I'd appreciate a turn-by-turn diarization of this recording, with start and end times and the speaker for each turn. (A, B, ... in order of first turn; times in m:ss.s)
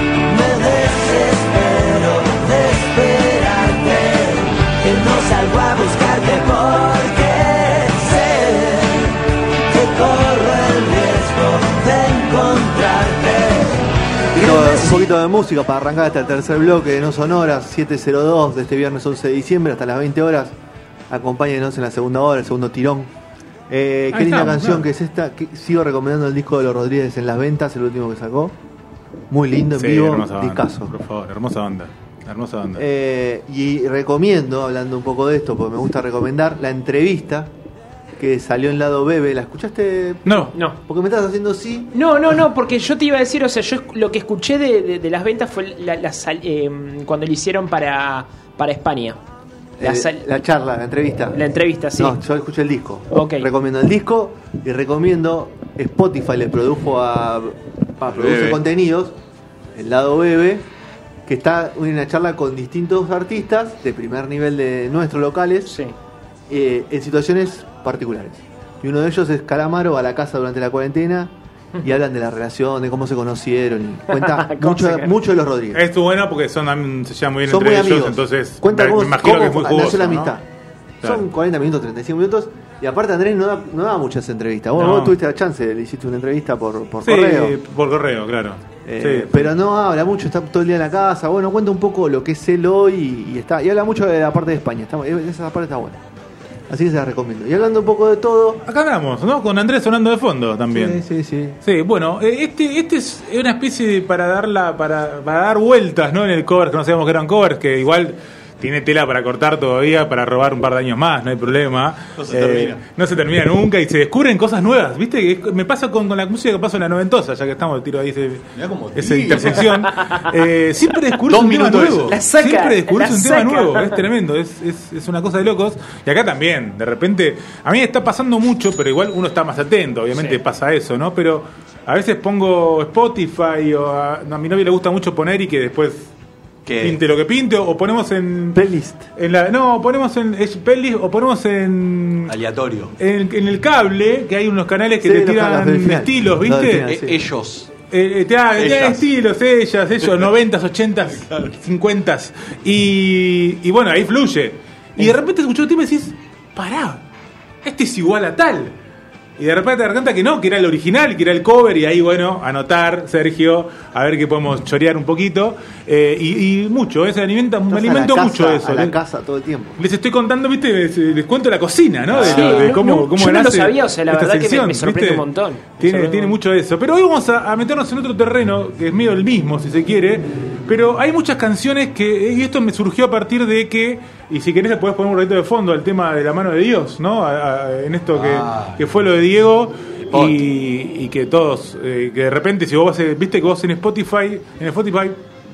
0:00.2-0:13.8 A
0:14.3-0:20.5 B
0:14.3-0:15.1 A
0:21.1-0:23.1 B
0:23.7-0:28.5 B
0:24.1-0:24.9 C
0:29.3-0:30.9 B
0:29.7-0:32.8 C
0:32.8-0:37.5 B
0:38.2-0:41.9 B
0:40.2-0:40.5 C
0:41.9-0:49.2 D
0:49.8-0:51.4 B
0:49.8-0:50.3 D
0:51.3-0:52.2 D
0:52.0-0:59.2 B
0:53.1-0:53.5 D
0:58.1-0:58.6 E
0:59.7-1:00.6 B
1:01.2-1:05.7 B
1:05.6-1:05.9 D
1:06.5-1:11.3 B
1:11.8-1:15.8 B
1:14.1-1:15.1 D
1:15.7-1:20.4 C
1:17.5-1:20.4 B
1:21.0-1:27.5 B
1:24.7-1:25.2 C
1:27.0-1:29.5 C
1:28.8-1:36.0 B
1:36.7-1:38.6 B
1:38.6-1:41.0 C
1:40.7-1:41.6 B
1:41.6-2:16.1 C
1:52.2-1:52.8 E
1:58.5-1:59.8 E
1:59.8-2:00.2 D
2:01.3-2:02.2 E
2:02.0-2:04.0 D
2:16.6-2:17.0 E
2:16.8-2:18.6 C
2:18.5-2:19.1 B
2:19.2-2:22.4 C
2:22.3-2:22.9 E
2:23.0-2:26.9 C
2:25.0-2:27.2 B
2:26.9-2:27.7 E
2:27.9-2:37.0 C
2:28.6-2:29.0 E
2:31.1-2:31.5 E
2:37.6-2:38.7 C
2:39.4-2:49.0 C
2:47.7-2:49.8 B
2:49.8-2:55.2 C
2:52.1-2:52.7 E
2:52.2-2:56.4 D
2:55.8-3:15.2 C
3:08.1-3:08.8 E
3:10.1-3:10.4 E